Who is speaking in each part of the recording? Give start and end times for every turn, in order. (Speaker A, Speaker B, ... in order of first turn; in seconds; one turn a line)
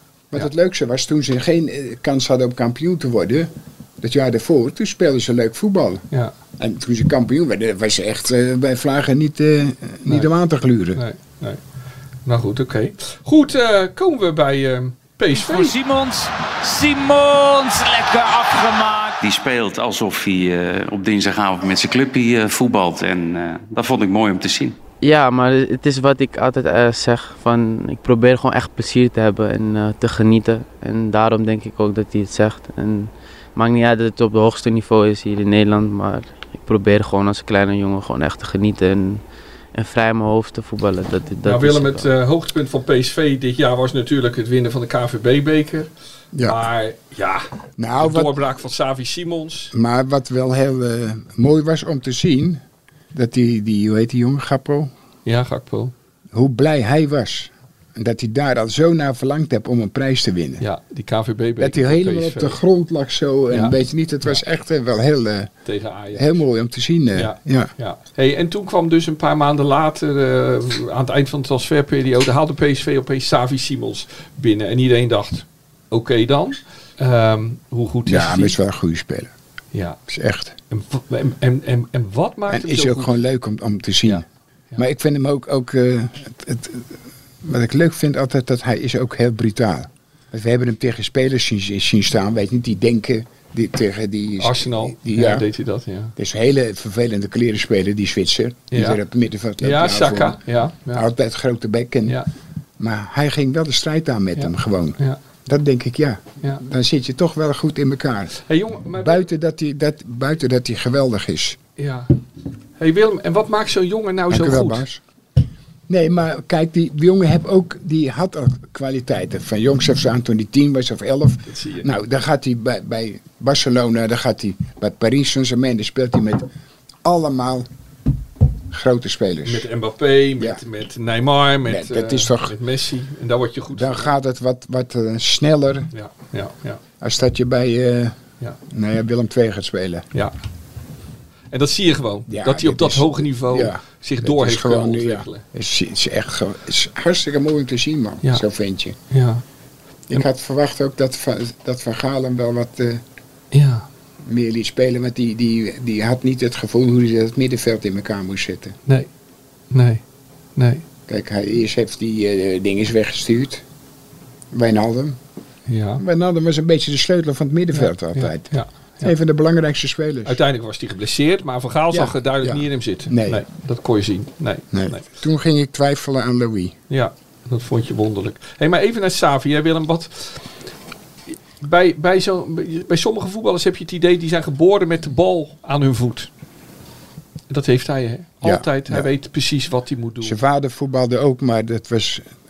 Speaker A: 0.3-6.0
Speaker A: 6.6-11.0
Speaker B: 11.0-11.6
Speaker B: 12.3-15.8
Speaker C: 15.3-19.2
Speaker D: 19.2-24.8
Speaker E: 25.0-39.2
Speaker E: 39.7-42.1
Speaker B: 41.4-45.9
Speaker A: 46.3-46.6
Speaker B: 46.4-47.5
Speaker A: 47.8-48.4
Speaker B: 48.0-49.7
Speaker A: 49.7-52.6
Speaker A: 53.1-54.9
Speaker B: 55.3-55.9
Speaker A: 56.3-60.6
Speaker B: 60.6-62.6
Speaker A: 61.6-65.5
Speaker B: 63.5-64.4
Speaker B: 65.7-66.4
Speaker A: 66.1-67.7
Speaker B: 67.2-78.6
Speaker A: 78.1-79.3
Speaker B: 79.7-80.0
Speaker A: 80.1-80.6
Speaker B: 80.7-83.1
Speaker A: 82.5-84.2
Speaker B: 84.1-84.8
Speaker A: 84.8-86.9
Speaker A: 87.4-95.5
Speaker B: 94.4-96.1
Speaker A: 96.2-100.4
Speaker B: 98.7-99.0
Speaker B: 99.6-101.1
Speaker A: 100.9-102.2
Speaker A: 102.8-108.3
Speaker B: 104.4-105.2
Speaker B: 108.4-109.3
Speaker A: 108.9-111.6
Speaker B: 111.8-112.1
Speaker B: 112.8-114.8
Speaker A: 114.3-115.0
Speaker A: 115.9-126.5
Speaker B: 121.5-121.9
Speaker A: 127.0-127.7
Speaker A: 128.7-129.7
Speaker B: 129.5-134.1
Speaker A: 131.7-132.6
Speaker A: 133.7-135.9
Speaker B: 135.9-136.8
Speaker A: 137.0-138.2
Speaker A: 138.7-140.1
Speaker B: 141.5-145.4
Speaker A: 142.3-149.0
Speaker B: 149.1-149.4
Speaker A: 150.1-153.0
Speaker B: 153.5-153.9
Speaker A: 154.2-158.8
Speaker B: 159.7-160.0
Speaker B: 160.6-160.8
Speaker A: 161.1-163.6
Speaker A: 164.5-165.2
Speaker B: 165.7-166.0
Speaker A: 166.0-170.4
Speaker B: 167.7-169.1
Speaker B: 170.2-175.1
Speaker A: 171.9-173.4
Speaker A: 174.7-176.8
Speaker B: 176.9-180.4
Speaker B: 181.6-186.3
Speaker B: 187.5-190.4
Speaker A: 188.4-189.1
Speaker A: 190.2-192.3